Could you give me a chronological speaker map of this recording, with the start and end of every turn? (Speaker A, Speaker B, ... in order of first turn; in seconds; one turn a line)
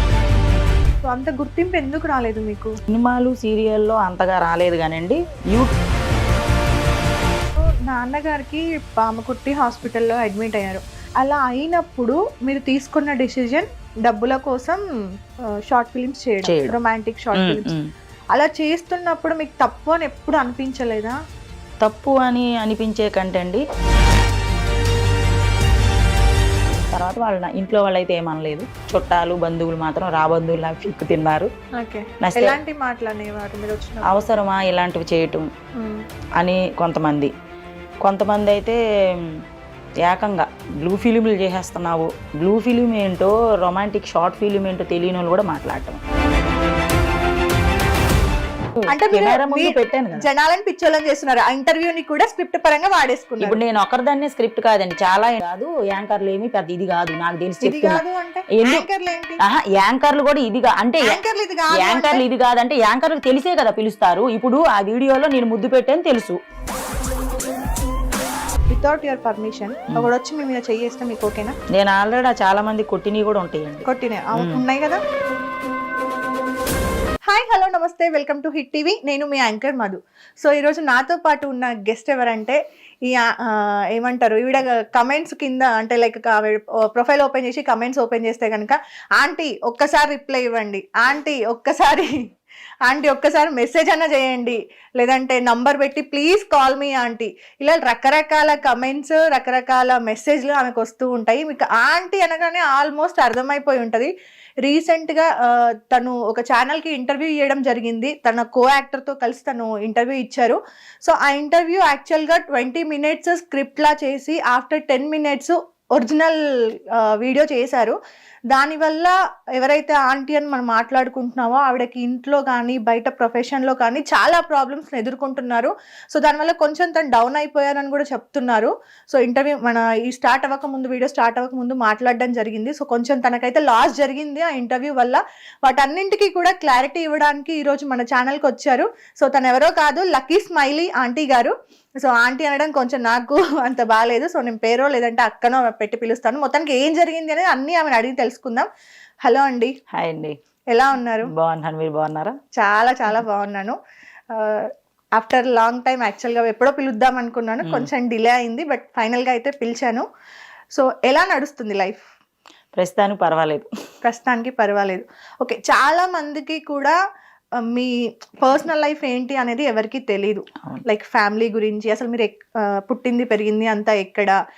Speaker A: 1.0-2.7
Speaker B: 2.9-5.7
Speaker A: 7.6-14.8
Speaker A: 15.7-17.7
Speaker B: 16.4-16.8
Speaker B: 17.3-17.9
Speaker A: 18.3-21.2
Speaker B: 21.8-23.6
Speaker B: 26.9-31.5
Speaker A: 31.8-34.2
Speaker B: 32.2-32.6
Speaker B: 34.1-35.5
Speaker B: 36.4-37.3
Speaker B: 38.0-39.4
Speaker B: 40.0-46.0
Speaker B: 48.8-50.2
Speaker A: 48.9-53.6
Speaker B: 53.4-58.8
Speaker A: 57.6-59.4
Speaker B: 59.5-61.2
Speaker A: 61.0-62.2
Speaker B: 61.7-66.4
Speaker A: 68.7-71.5
Speaker B: 71.7-74.6
Speaker A: 73.8-75.0
Speaker A: 77.3-92.1
Speaker A: 92.8-104.1
Speaker A: 104.6-116.4
Speaker A: 116.9-118.0
Speaker A: 118.5-148.7
Speaker A: 149.2-149.7
Speaker B: 149.9-150.4
Speaker A: 150.7-151.3
Speaker B: 151.2-152.3
Speaker A: 152.6-153.8
Speaker A: 154.3-160.0
Speaker B: 157.6-157.9
Speaker A: 160.7-162.1
Speaker B: 162.7-163.7
Speaker A: 164.0-166.9
Speaker A: 167.6-174.3